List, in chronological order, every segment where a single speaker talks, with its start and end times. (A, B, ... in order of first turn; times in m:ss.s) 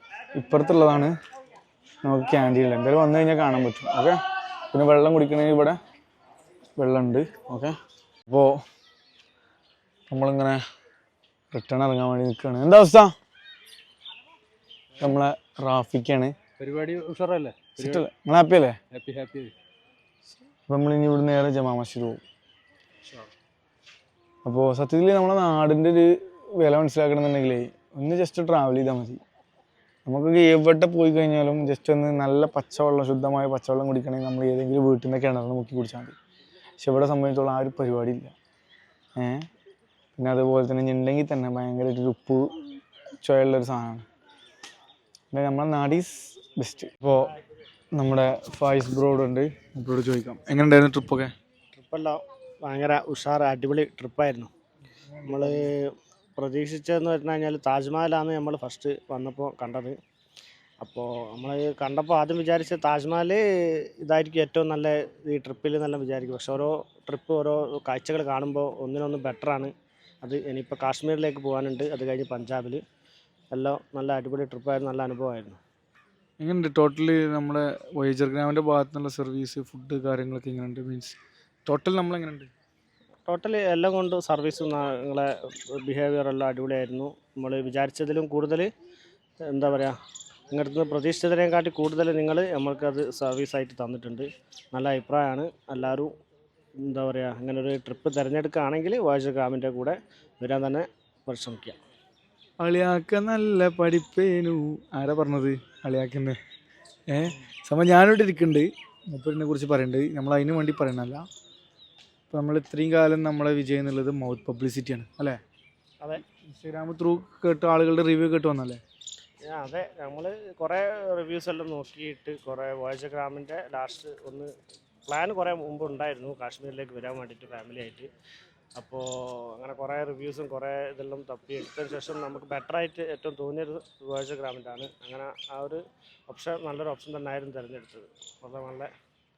0:00.4-0:01.1 A
0:02.0-0:04.2 A
0:04.7-0:05.8 A
0:06.8-0:07.8 A
0:08.3-0:08.6 A
0:10.1-0:10.6 A
0:11.5-0:13.1 A
0:15.0-0:16.3 A
0:16.6-0:18.0 B
0:17.8-0:18.8 A
0:18.9-0:19.5 B
0:20.7-0:22.2 A
0:24.4-0:29.2 A
0:30.0-0:36.2 A
0:36.8-0:38.3 A
0:39.2-0:39.5 A
0:40.2-0:42.5 A
0:43.2-0:44.0 A
0:45.3-0:47.3 A
0:47.9-0:51.3 A
0:51.7-0:54.5 C
0:55.2-0:55.5 A
0:55.2-1:00.0 C
1:00.8-1:12.8 C
1:13.5-1:15.6 C
1:16.4-1:22.5 A
1:23.2-1:28.7 C
1:29.4-1:30.0 C
1:30.5-1:36.1 C
1:36.8-1:41.8 C
1:42.6-1:46.4 A
1:47.1-1:51.2 A
1:52.3-1:55.4 A
1:56.3-1:58.8 A
1:59.4-2:04.5 C
2:05.1-2:08.1 C
2:08.8-2:18.9 C